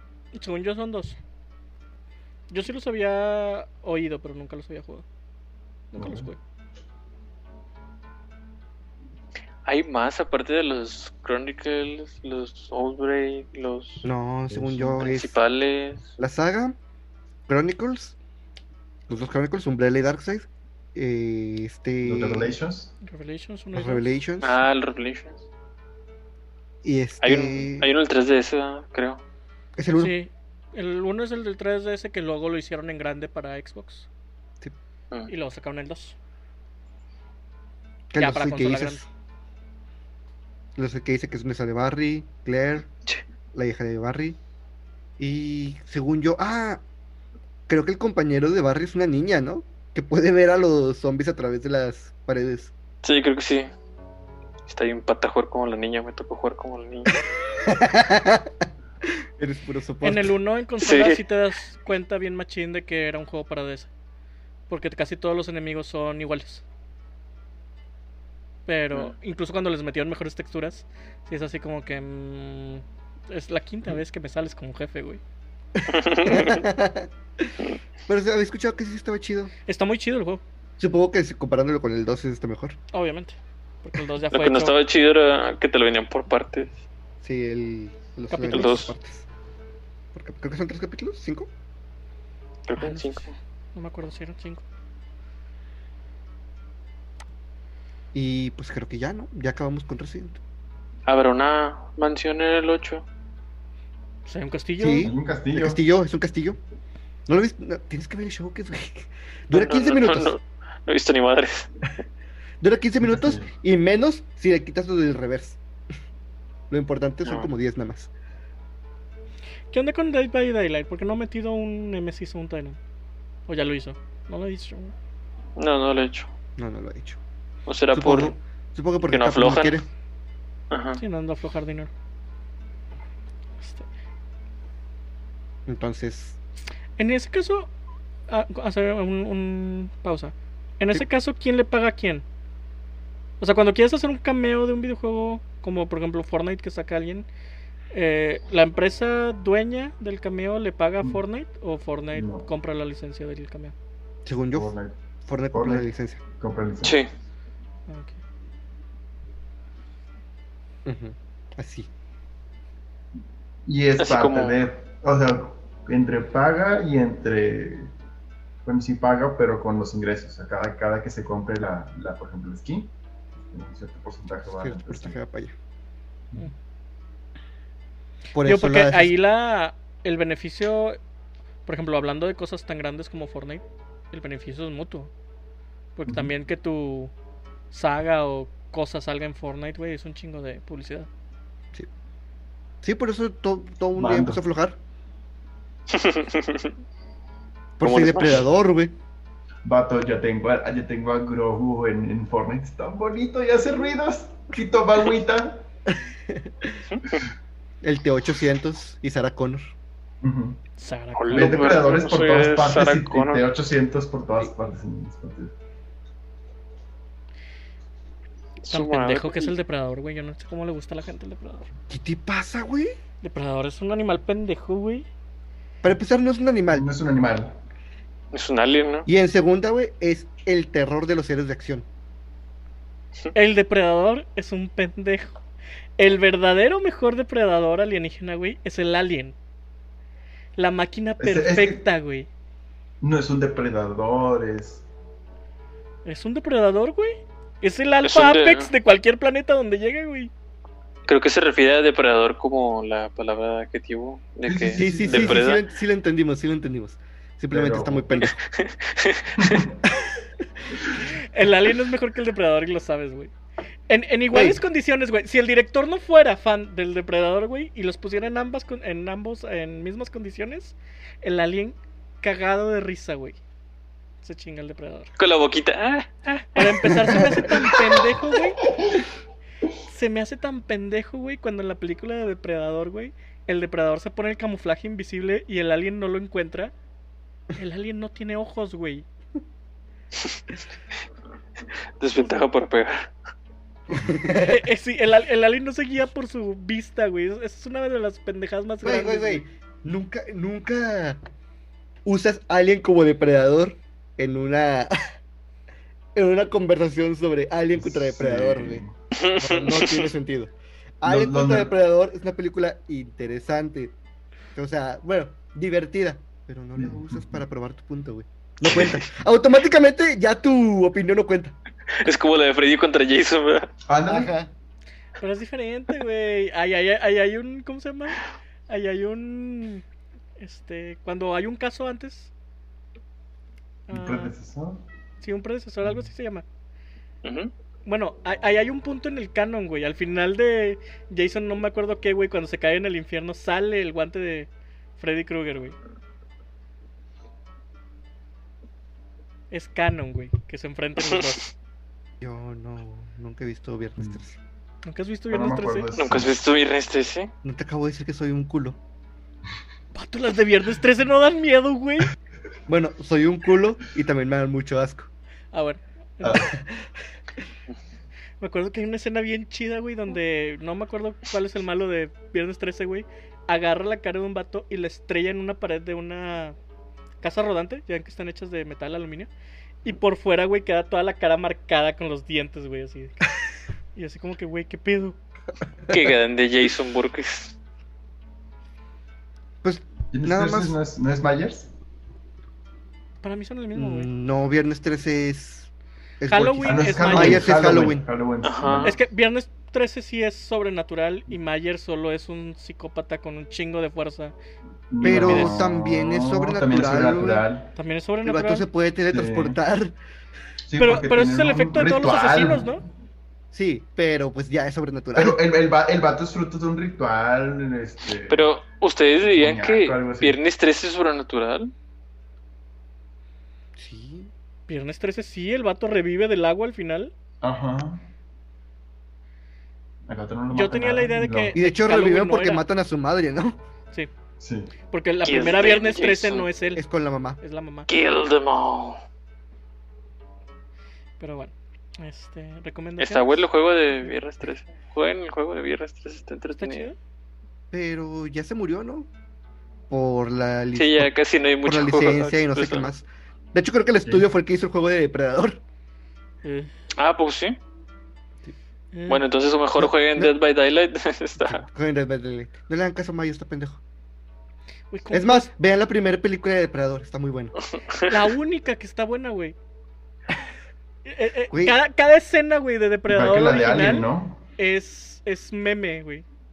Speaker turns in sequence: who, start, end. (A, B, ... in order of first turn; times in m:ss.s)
0:00.4-0:01.2 A
0:02.5-0:05.0 A
0:05.9-0:06.4 A
0:06.0-0:06.3 B
0:09.6-0:14.0 C
0:14.0-0:15.4 D
0:14.5-0:15.0 B
0:15.0-0:16.1 C
0:16.2-0:16.8 D
0:17.5-0:18.2 D
0:19.1-0:22.5 D
0:22.0-0:22.9 B
0:23.0-0:24.0 A
0:23.7-0:24.6 D
0:24.4-0:25.4 C
0:26.8-0:27.9 D
0:27.2-0:29.2 C
0:29.8-0:30.2 D
0:30.0-0:34.1 A
0:35.3-0:36.2 A
0:38.1-0:39.1 D
0:38.2-0:39.0 A
0:40.8-0:42.9 D
0:43.5-0:44.4 D
0:45.2-0:46.8 D
0:47.7-0:52.7 D
0:53.0-0:53.7 C
0:54.7-0:57.2 C
0:57.6-0:58.5 D
0:59.0-1:00.3 D
1:00.0-1:03.9 A
1:00.8-1:01.2 C
1:04.7-1:06.6 A
1:08.6-1:15.2 A
1:15.8-1:17.5 D
1:15.9-1:16.6 C
1:18.0-1:19.5 D
1:19.7-1:20.4 A
1:20.8-1:22.8 D
1:22.9-1:24.8 A
1:24.3-1:26.7 C
1:27.2-1:29.3 D
1:28.3-1:28.9 A
1:28.5-1:28.9 C
1:30.1-1:31.5 D
1:32.7-1:33.3 C
1:32.7-1:34.6 A
1:38.1-1:40.4 D
1:41.1-1:43.0 C
1:44.2-1:45.1 A
1:44.8-1:46.6 D
1:45.0-1:45.8 B
1:47.3-1:50.4 D
1:49.5-1:51.7 C
1:52.6-1:55.6 D
1:53.0-1:53.5 B
1:56.7-1:58.1 D
1:59.7-2:02.8 A
2:03.5-2:04.9 A
2:05.6-2:06.3 C
2:06.6-2:07.2 D
2:07.7-2:08.3 C
2:07.9-2:09.9 D
2:09.0-2:09.8 C
2:10.7-2:11.0 C
2:11.0-2:11.9 A
2:13.6-2:13.8 A
2:15.7-2:16.4 D
2:17.0-2:17.7 A
2:18.3-2:22.2 A
2:23.4-2:27.3 A
2:27.9-2:33.7 A
2:32.1-2:32.5 B
2:34.2-2:34.7 D
2:34.5-2:35.0 B
2:35.2-2:36.2 D
2:35.5-2:35.9 B
2:36.4-2:37.0 B
2:36.8-2:37.1 C
2:37.9-2:38.2 A
2:40.8-2:41.9 D
2:43.6-2:47.9 B
2:44.0-2:44.6 C
2:48.6-2:52.9 B
2:53.4-2:55.2 B
2:54.5-2:55.5 D
2:58.3-2:59.1 D
2:58.4-3:01.0 A
3:01.6-3:05.1 A
3:06.0-3:07.1 A
3:07.7-3:11.1 A
3:12.8-3:14.8 D
3:14.0-3:14.4 B
3:15.9-3:16.7 C
3:17.8-3:18.9 D
3:17.8-3:18.4 C
3:19.6-3:25.6 B
3:25.9-3:26.8 D
3:26.8-3:27.2 C
3:27.8-3:29.7 D
3:30.2-3:30.6 B
3:30.8-3:31.9 A
3:31.1-3:33.4 C
3:31.3-3:35.5 B
3:38.6-3:39.5 C
3:38.7-3:41.7 A
3:41.9-3:42.9 D
3:43.2-3:45.1 A
3:45.8-3:46.9 D
3:46.7-3:47.6 B
3:48.3-3:49.0 C
3:49.0-3:51.8 D
3:53.3-3:55.4 A
3:56.0-3:59.4 A
4:00.6-4:02.3 A
4:01.2-4:01.8 B
4:03.0-4:04.8 B
4:06.0-4:10.3 A
4:08.0-4:08.7 C
4:11.0-4:15.6 C
4:14.4-4:15.4 B
4:14.8-4:18.4 D
4:17.5-4:18.1 B
4:18.2-4:19.7 C
4:19.4-4:19.8 B
4:21.0-4:23.3 A
4:23.9-4:33.4 A
4:24.3-4:24.6 D
4:34.2-4:35.1 A
4:35.2-4:37.0 C
4:36.5-4:38.6 A
4:36.9-4:37.5 D
4:39.8-4:46.7 A
4:47.5-4:49.0 A
4:52.0-4:53.1 C
4:53.9-4:54.6 D
4:54.3-4:59.4 A
4:58.8-5:01.2 D
5:02.0-5:05.0 D
5:06.1-5:08.8 D
5:07.8-5:08.9 B
5:09.1-5:10.1 C
5:09.4-5:13.9 D
5:11.0-5:11.7 B
5:14.5-5:21.5 D
5:16.8-5:17.4 B
5:22.0-5:23.7 C
5:23.9-5:24.3 B
5:24.0-5:24.5 D
5:25.2-5:29.8 A
5:30.4-5:32.3 A
5:33.9-5:34.3 A
5:33.9-5:34.8 B
5:35.2-5:36.4 A
5:37.2-5:37.5 C
5:37.8-5:45.8 A
5:49.5-5:51.4 A
5:51.0-5:51.5 C
5:52.2-5:54.4 D
5:54.8-5:55.9 A
5:55.3-5:56.4 B
5:56.0-5:57.3 C
5:57.4-5:58.8 D
5:59.9-6:02.1 A
6:02.7-6:05.1 D
6:05.5-6:06.5 A
6:06.2-6:06.5 B
6:06.5-6:06.8 D
6:08.4-6:16.6 A
6:17.2-6:19.3 A
6:19.8-6:23.2 A
6:23.9-6:25.2 A
6:25.9-6:27.6 C
6:29.6-6:30.8 D
6:30.1-6:31.7 B
6:33.2-6:34.1 A
6:33.7-6:35.7 D
6:36.2-6:38.0 D
6:36.2-6:37.5 A
6:36.6-6:38.9 B
6:38.4-6:39.0 C
6:38.8-6:44.3 A
6:44.9-6:47.7 B
6:45.0-6:47.4 D
6:45.0-6:45.5 A
6:47.8-6:48.7 A
6:48.2-6:49.9 D
6:49.1-6:49.6 B
6:50.6-6:52.8 B
6:50.8-6:52.8 A
6:53.5-6:55.4 D
6:55.2-6:58.5 B
6:58.3-7:01.7 C
6:59.2-7:00.4 B
7:03.8-7:04.3 D
7:04.7-7:07.1 A
7:07.4-7:08.0 B
7:10.1-7:11.6 B
7:10.5-7:12.6 A
7:11.5-7:13.6 D
7:14.4-7:14.7 B
7:14.9-7:16.8 A
7:15.2-7:16.5 C
7:16.7-7:17.4 D
7:17.4-7:17.9 A
7:17.9-7:19.0 C
7:21.2-7:23.3 A
7:23.0-7:26.9 C
7:26.6-7:27.0 A
7:27.7-7:29.1 D
7:29.9-7:31.1 D
7:30.7-7:32.9 C
7:31.6-7:35.6 D
7:36.4-7:36.7 A
7:37.0-7:37.6 C
7:38.9-7:39.2 A
7:39.1-7:41.7 C
7:39.8-7:40.3 D
7:41.4-7:43.8 D
7:44.9-7:45.5 A
7:45.1-7:47.5 D
7:47.9-7:48.2 C
7:48.1-7:49.6 A
7:51.0-7:56.2 A
7:51.5-7:51.8 D
7:53.1-7:54.4 B